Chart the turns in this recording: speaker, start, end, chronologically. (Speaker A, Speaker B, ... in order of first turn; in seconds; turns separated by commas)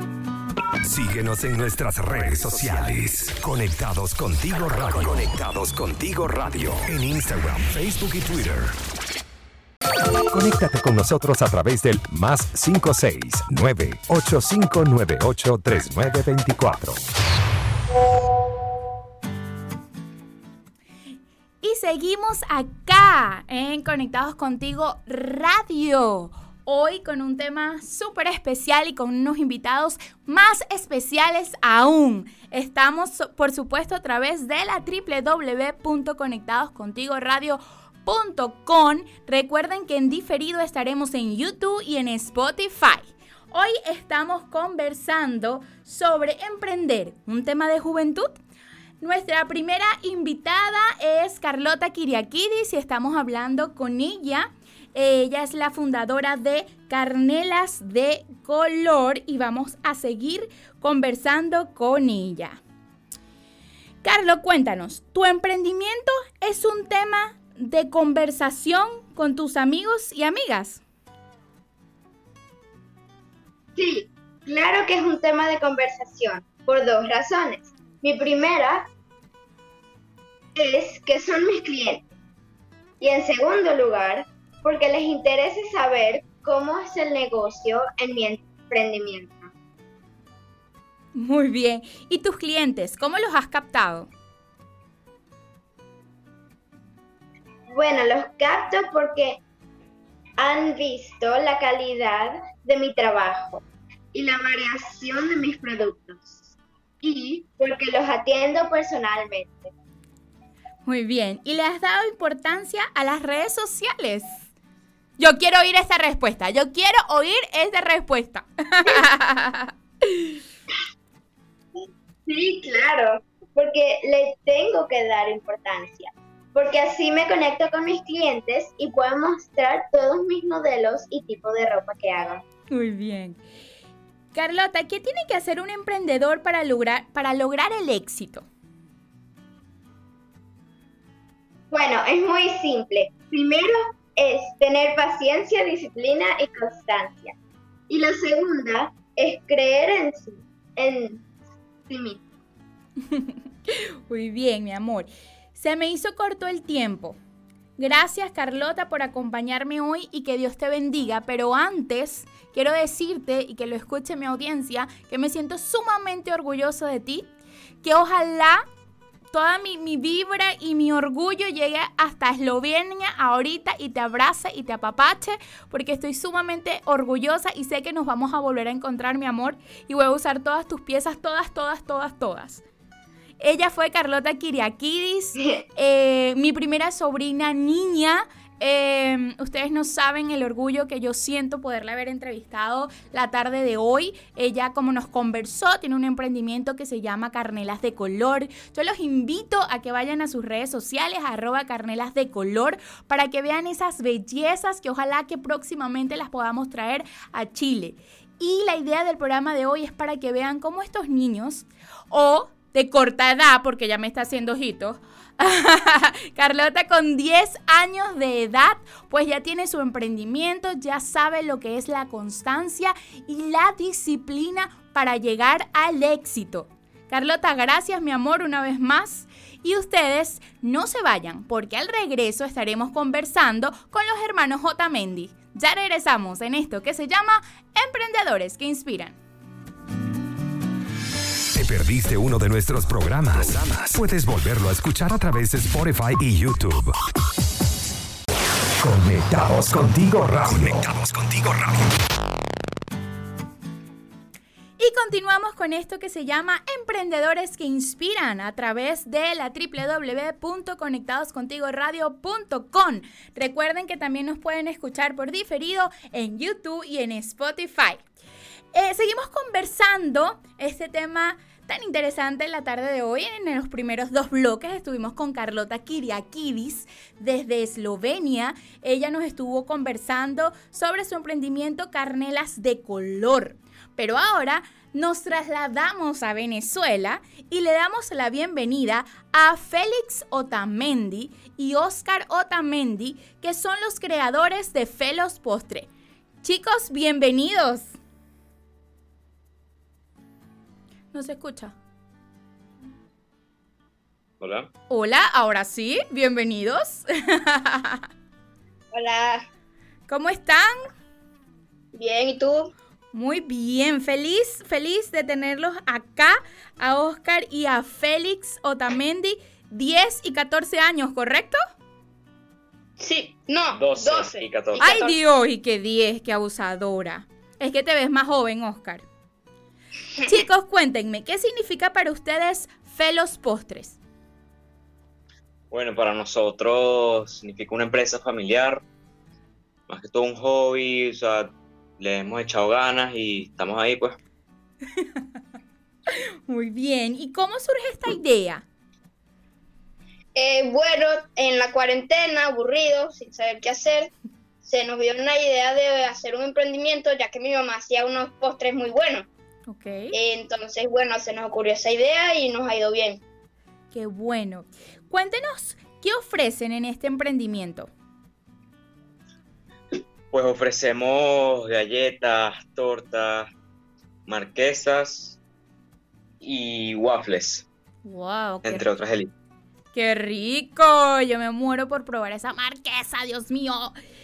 Speaker A: 0.8-8.7, Speaker A: 10.3-17.0, Speaker B: 21.6-48.3, Speaker B: 49.0-62.6, Speaker B: 64.0-70.8, Speaker C: 73.8-78.9, Speaker C: 80.5-82.1, Speaker C: 83.0-89.5, Speaker B: 91.1-94.1, Speaker C: 97.7-99.4, Speaker C: 100.4-109.7, Speaker B: 110.8-114.3, Speaker B: 115.2-120.4, Speaker C: 121.8-132.4, Speaker B: 132.7-133.4, Speaker B: 134.3-138.4, Speaker C: 141.7-147.3, Speaker C: 147.9-151.2, Speaker C: 151.9-152.2, Speaker B: 153.1-157.2, Speaker B: 157.8-167.3, Speaker B: 167.8-168.6, Speaker B: 169.3-182.6, Speaker B: 183.4-239.2, Speaker C: 185.4-185.6, Speaker A: 241.5-246.9, Speaker A: 248.8-251.9, Speaker B: 254.8-268.0, Speaker B: 268.7-295.9, Speaker B: 296.4-297.9, Speaker B: 301.1-301.7, Speaker D: 304.4-304.7, Speaker B: 304.9-308.0, Speaker E: 308.9-309.4, Speaker B: 310.1-310.8, Speaker E: 311.9-312.7, Speaker B: 313.1-321.6, Speaker E: 323.0-325.2, Speaker D: 323.7-324.9, Speaker B: 324.8-329.0, Speaker B: 330.2-334.0, Speaker D: 335.7-338.8, Speaker D: 339.9-344.2, Speaker B: 346.1-348.6, Speaker E: 350.3-354.1, Speaker E: 354.6-359.2, Speaker B: 359.7-360.1, Speaker E: 360.1-363.2, Speaker B: 363.9-367.9, Speaker D: 370.3-373.5, Speaker D: 374.2-375.4, Speaker D: 376.4-377.6, Speaker B: 378.0-378.9, Speaker D: 378.6-379.3, Speaker B: 379.9-383.9